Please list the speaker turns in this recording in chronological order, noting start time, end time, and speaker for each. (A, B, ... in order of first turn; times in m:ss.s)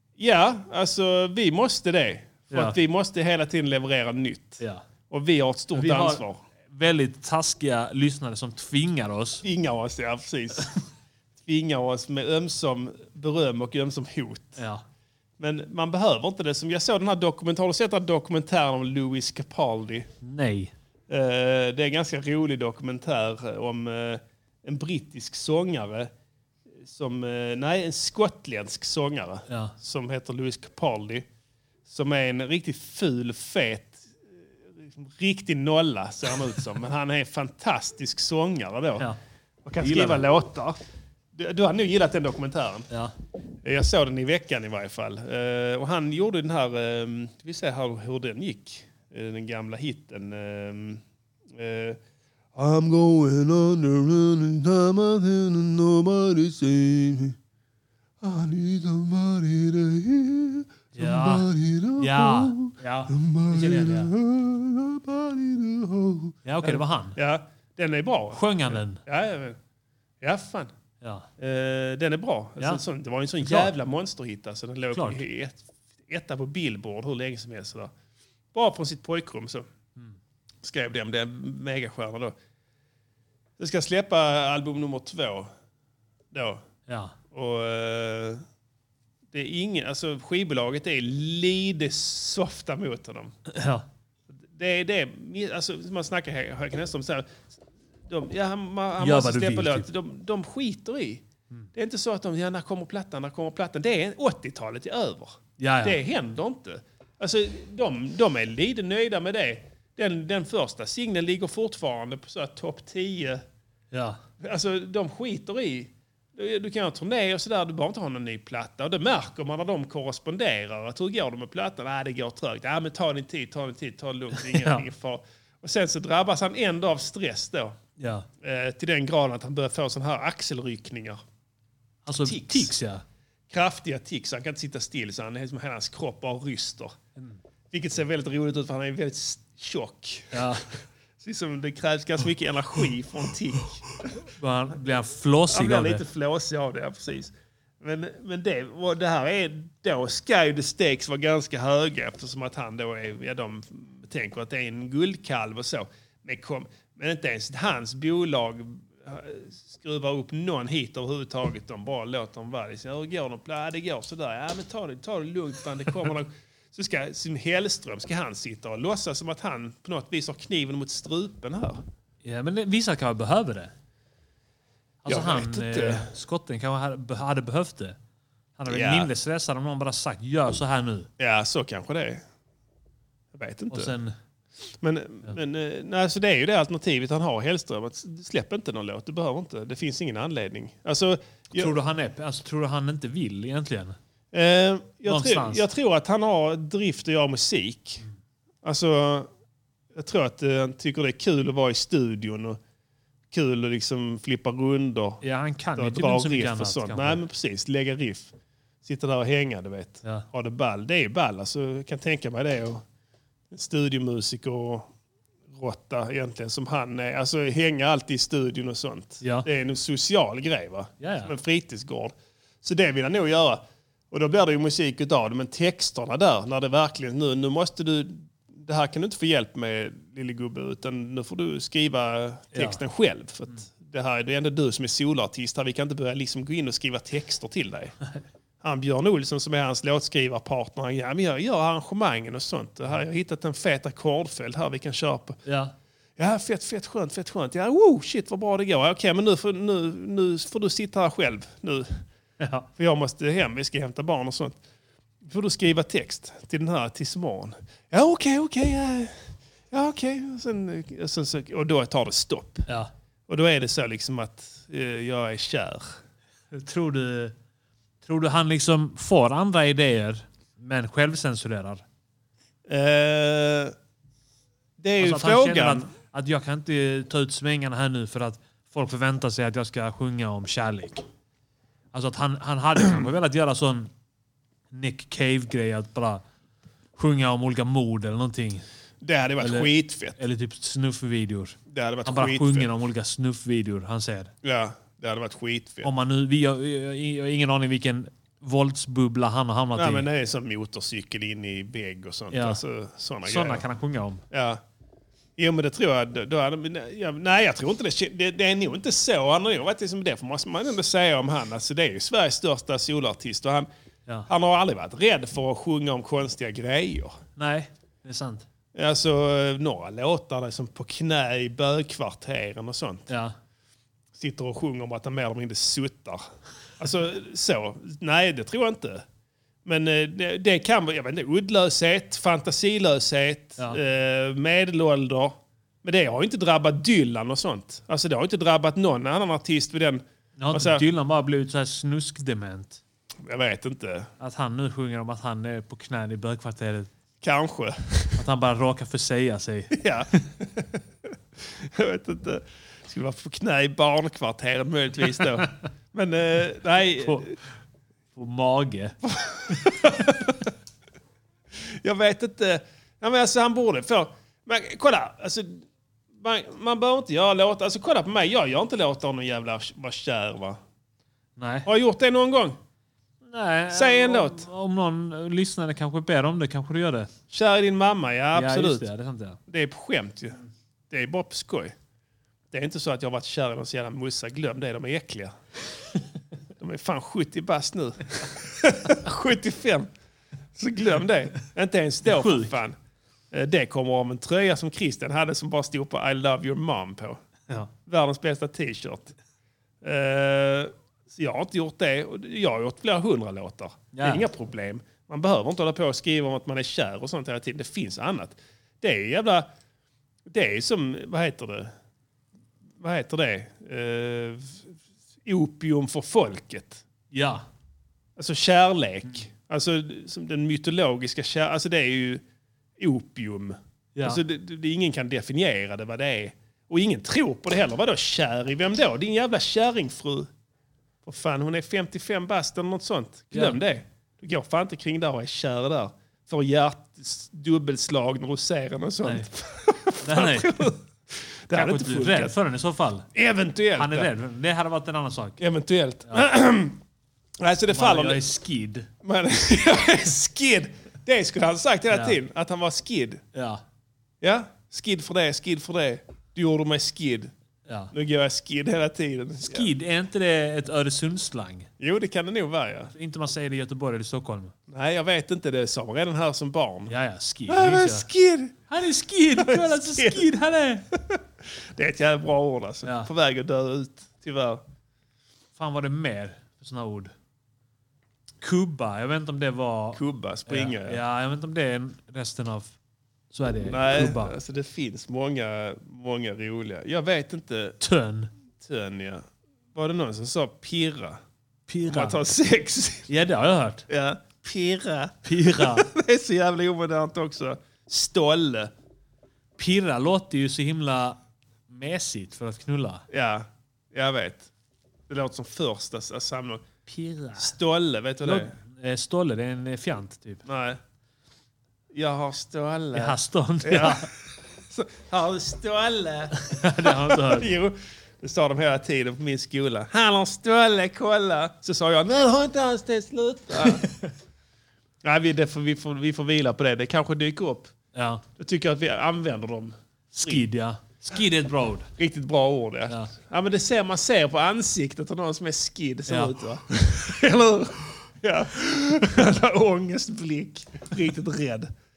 0:00.2-0:06.4 A
0:02.5-0:02.8 B
0:05.7-0:09.4 B
0:09.4-0:10.7 A
0:11.4-0:14.6 A
0:14.6-0:14.8 B
0:15.4-0:20.1 A
0:20.2-0:20.7 B
0:21.1-0:26.1 A
0:26.8-0:31.3 A
0:29.5-0:29.7 B
0:31.9-0:39.1 A
0:39.6-0:40.8 A
0:39.8-0:40.2 B
0:41.3-0:42.9 A
0:43.6-0:52.0 A
0:52.6-0:57.4 A
0:58.2-1:09.6 A
1:01.0-1:04.1 B
1:06.4-1:07.2 B
1:08.3-1:09.0 B
1:10.2-1:10.7 A
1:11.0-1:11.3 B
1:11.4-1:17.9 A
1:13.4-1:13.7 B
1:14.9-1:15.2 B
1:18.5-1:19.7 A
1:20.6-1:22.4 A
1:23.6-1:25.5 A
1:26.3-1:26.6 A
1:26.9-1:27.2 B
1:27.3-1:28.4 A
1:29.3-1:33.3 A
1:33.5-1:33.9 B
1:34.3-1:37.5 A
1:38.1-1:53.4 A
1:39.0-1:39.9 B
1:45.6-1:46.0 B
1:53.9-1:54.2 B
1:54.4-2:07.8 A
2:04.3-2:04.9 B
2:08.0-2:08.3 B
2:08.4-2:11.2 A
2:12.0-2:13.0 B
2:12.2-2:12.7 A
2:13.5-2:17.0 A
2:17.7-2:23.9 A
2:20.3-2:20.7 B
2:24.4-2:26.0 B
2:25.5-2:51.8 A
2:52.2-2:53.7 B
2:55.0-2:58.0 B
2:55.1-2:56.1 A
2:58.6-3:01.1 B
2:58.7-2:59.1 A
3:01.2-3:02.2 A
3:03.3-3:03.9 A
3:03.7-3:04.1 B
3:04.8-3:11.7 A
3:11.5-3:14.0 B
3:14.3-3:18.0 A
3:15.1-3:15.7 B
3:18.6-3:19.3 A
3:19.9-3:22.6 A
3:23.3-3:25.2 A
3:25.2-3:27.2 B
3:25.7-3:32.8 A
3:33.5-3:34.9 A
3:35.5-3:57.9 A
3:39.2-3:39.5 B
3:41.0-3:41.3 B
3:52.5-3:52.8 B
3:58.6-4:05.4 A
4:05.4-4:05.7 B
4:06.2-4:12.0 A
4:12.4-4:12.7 B
4:12.8-4:14.6 A
4:15.2-4:19.1 A
4:19.7-4:22.7 A
4:23.3-4:26.0 A
4:26.5-4:27.3 B
4:28.0-4:31.8 B
4:32.7-4:33.7 A
4:34.8-4:35.9 A
4:35.0-4:41.0 B
4:41.9-4:43.9 B
4:44.7-4:46.2 B
4:47.0-4:48.6 B
4:49.0-4:50.2 A
4:49.4-4:54.3 B
4:51.7-4:52.7 A
4:54.4-4:55.9 A
4:55.8-5:00.1 B
4:59.8-5:03.6 A
5:02.3-5:02.6 B
5:03.2-5:04.2 B
5:04.3-5:04.6 A
5:05.4-5:13.7 A
5:14.3-5:17.2 A
5:17.4-5:18.4 B
5:18.7-5:23.1 A
5:23.1-5:23.4 B
5:24.1-5:26.2 A
5:26.8-5:29.0 A
5:29.6-5:40.8 A
5:40.4-5:42.8 B
5:43.2-5:44.1 A
5:44.2-5:46.9 B
5:47.2-5:48.2 A
5:48.2-5:50.3 B
5:49.7-5:50.8 A
5:51.4-5:57.3 A
5:55.2-5:55.5 B
5:56.7-5:57.3 B
5:58.1-5:59.0 B
5:59.0-6:00.5 A
5:59.5-5:59.9 B
6:01.5-6:10.6 A
6:11.4-6:11.7 B
6:11.7-6:12.6 A
6:13.2-6:17.1 B
6:13.7-6:14.4 A
6:17.3-6:18.9 A
6:18.4-6:19.4 B
6:19.5-6:20.4 A
6:20.9-6:21.7 A
6:22.5-6:25.4 A
6:26.6-6:29.9 A
6:30.6-6:32.8 A
6:32.0-6:32.5 B
6:33.3-6:37.2 A
6:37.9-6:39.1 A
6:39.8-6:49.5 A
6:43.9-6:44.3 B
6:50.3-6:51.7 A
6:52.8-6:54.7 A
6:55.3-6:56.8 A
6:57.1-6:57.4 B
6:58.2-7:02.2 A
7:02.8-7:10.3 A
7:04.0-7:04.2 B
7:11.0-7:22.4 A
7:13.3-7:13.6 B
7:20.0-7:20.7 B
7:21.5-7:23.1 B
7:23.1-7:24.1 A
7:23.8-7:25.4 B
7:25.4-7:26.8 A
7:27.4-7:28.2 A
7:27.7-7:28.9 B
7:29.0-7:33.2 A
7:31.9-7:32.2 B
7:33.3-7:33.6 B
7:34.2-7:37.3 A
7:37.7-7:37.9 B
7:37.9-7:39.7 A
7:39.4-7:41.7 B
7:41.8-7:42.9 A
7:42.9-7:44.5 B
7:44.7-7:46.9 A
7:46.9-7:48.1 B
7:47.5-7:48.6 A
7:48.7-7:50.9 B
7:49.4-7:50.2 A
7:51.0-7:54.6 A
7:52.8-7:53.1 B
7:55.6-7:57.1 B
7:58.4-8:02.7 B
7:59.9-8:01.0 A
8:03.3-8:04.4 B
8:03.6-8:07.8 A
8:07.8-8:08.3 B
8:08.6-8:11.2 A
8:11.7-8:12.2 B
8:11.9-8:13.1 A
8:13.1-8:13.9 B
8:13.9-8:18.7 A
8:15.2-8:15.9 B
8:19.6-8:21.2 B
8:21.7-8:23.0 B
8:23.1-8:24.5 A
8:25.1-8:26.6 A
8:26.9-8:27.5 B
8:27.4-8:28.5 A
8:28.2-8:30.4 B
8:30.4-8:30.8 A
8:31.9-8:34.1 A
8:33.0-8:34.1 B
8:34.7-8:43.8 A
8:36.4-8:37.5 B
8:43.8-8:44.1 B
8:45.0-8:47.7 A
8:47.9-8:48.2 B
8:48.4-8:50.4 A
8:50.1-8:51.9 B
8:52.0-9:01.7 A
8:56.1-8:56.3 B